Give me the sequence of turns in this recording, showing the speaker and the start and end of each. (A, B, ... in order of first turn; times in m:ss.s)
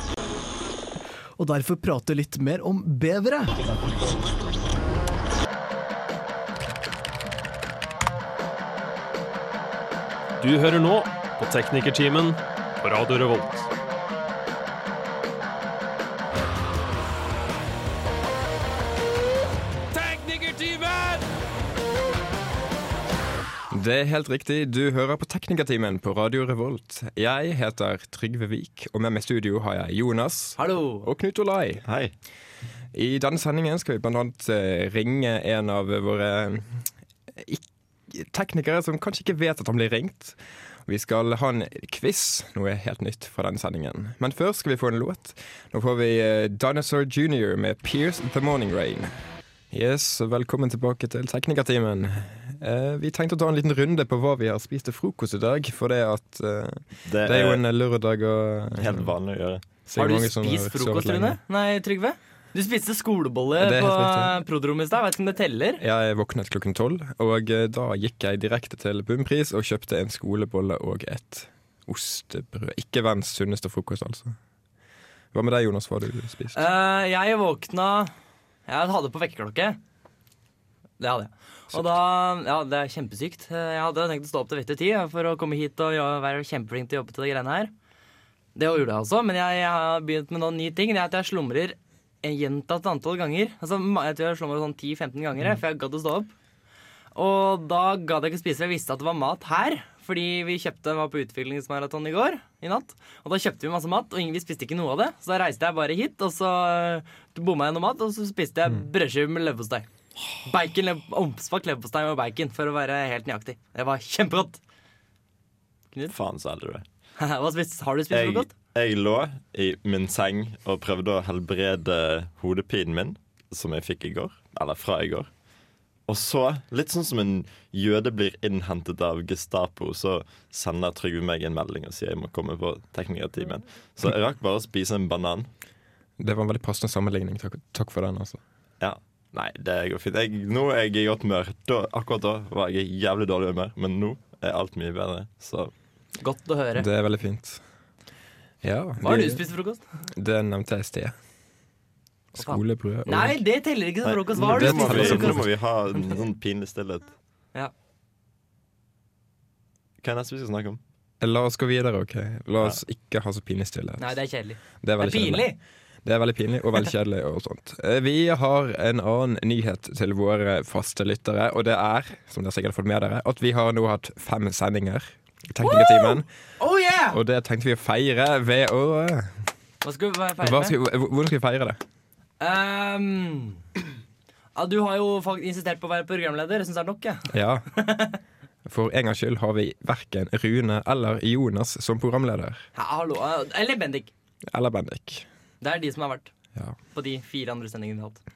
0:01.4-0:03.6 A
0:10.4-0:13.7 B
0:19.9-0:21.3 B
0:23.7-0:31.9 C
0:30.6-0:31.1 D
0:31.8-0:32.1 E
0:32.9-0:49.1 C
0:49.7-0:59.1 C
0:57.0-0:57.6 E
0:58.8-0:59.6 E
0:59.9-1:01.4 C
1:00.0-1:05.8 D
1:03.6-1:04.4 C
1:05.8-1:14.4 C
1:15.3-1:16.6 C
1:16.5-1:18.1 D
1:18.7-1:19.8 D
1:21.0-1:27.7 D
1:28.6-1:36.3 D
1:37.2-1:49.9 D
1:50.5-1:54.6 D
1:56.1-1:56.8 E
1:57.2-1:58.5 D
1:58.1-2:05.3 E
2:06.1-2:15.5 E
2:16.2-2:18.4 C
2:18.8-2:25.7 E
2:26.2-2:26.9 D
2:26.8-2:27.6 C
2:28.6-2:29.4 C
2:29.0-2:29.8 D
2:30.1-2:31.2 C
2:32.4-2:33.4 C
2:32.4-2:36.2 D
2:34.0-2:37.1 E
2:34.4-2:35.5 C
2:40.0-2:40.8 E
2:41.2-2:44.2 C
2:44.0-2:45.6 D
2:44.8-2:45.5 C
2:46.0-2:56.3 C
2:55.6-2:57.2 D
2:57.1-2:59.4 C
2:59.8-3:00.8 D
3:00.4-3:01.8 C
3:02.4-3:03.6 D
3:04.6-3:08.2 D
3:07.3-3:07.7 C
3:08.6-3:12.7 C
3:12.8-3:14.1 D
3:14.5-3:15.3 C
3:15.6-3:16.3 D
3:16.9-3:18.2 D